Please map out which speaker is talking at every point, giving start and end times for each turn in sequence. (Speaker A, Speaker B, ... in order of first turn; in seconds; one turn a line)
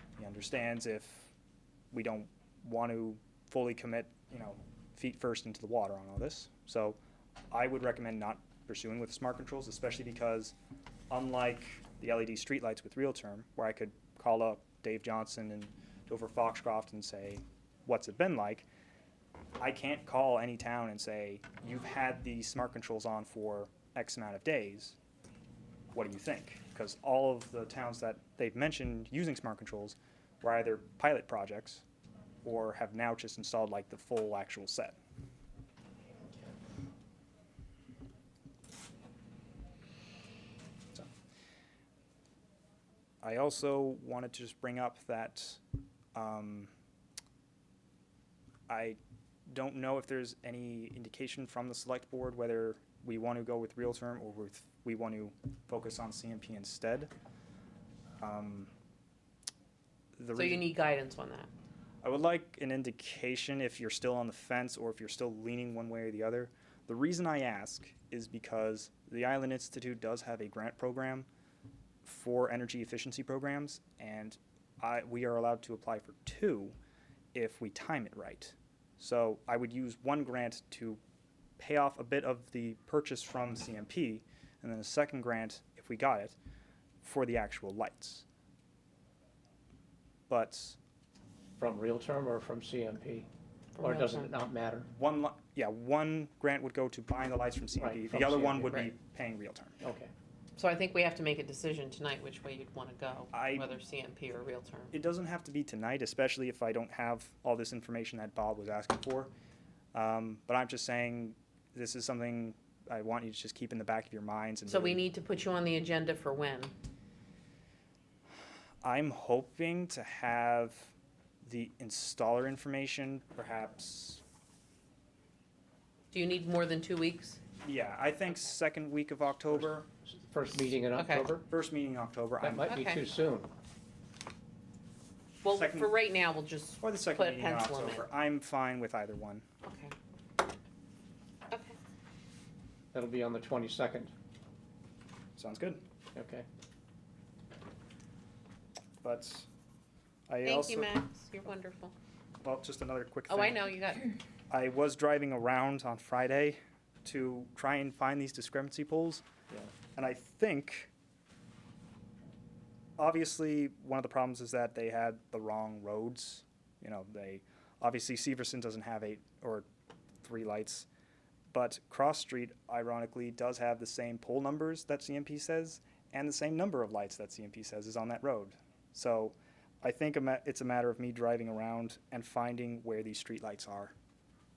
Speaker A: 0.2-1.3
Speaker A: 1.9-7.0
Speaker A: 7.5-10.6
Speaker A: 11.1-18.7
Speaker A: 19.6-25.0
Speaker A: 25.9-31.8
Speaker A: 32.4-35.0
Speaker A: 43.2-45.6
Speaker A: 46.1-46.7
Speaker A: 48.7-57.1
Speaker A: 58.2-58.7
Speaker A: 60.2-60.7
Speaker B: 60.3-61.5
Speaker A: 62.0-71.3
Speaker A: 72.0-76.8
Speaker A: 77.3-81.0
Speaker A: 81.6-86.4
Speaker A: 87.0-88.3
Speaker A: 90.3-90.8
Speaker C: 91.6-94.9
Speaker B: 93.8-94.3
Speaker A: 94.9-99.8
Speaker C: 97.8-98.8
Speaker B: 98.7-98.9
Speaker C: 99.8-100.1
Speaker B: 100.6-104.9
Speaker A: 103.3-103.7
Speaker A: 104.9-109.3
Speaker A: 109.9-115.0
Speaker B: 114.7-116.7
Speaker A: 118.8-124.2
Speaker B: 126.1-127.4
Speaker A: 127.6-129.9
Speaker C: 130.1-131.5
Speaker B: 130.9-131.3
Speaker A: 131.5-132.7
Speaker C: 132.4-133.5
Speaker B: 132.7-133.0
Speaker B: 135.4-138.1
Speaker A: 135.5-135.9
Speaker A: 136.8-139.4
Speaker B: 139.6-139.9
Speaker B: 141.5-141.8
Speaker C: 142.9-144.1
Speaker A: 145.4-145.8
Speaker C: 146.2-146.5
Speaker A: 149.0-149.5
Speaker A: 150.3-150.9
Speaker B: 150.4-151.9
Speaker A: 152.4-153.7
Speaker B: 153.3-154.2
Speaker A: 154.5-159.2
Speaker A: 160.0-160.9
Speaker A: 163.0-169.7
Speaker A: 170.2-170.9
Speaker A: 171.5-183.9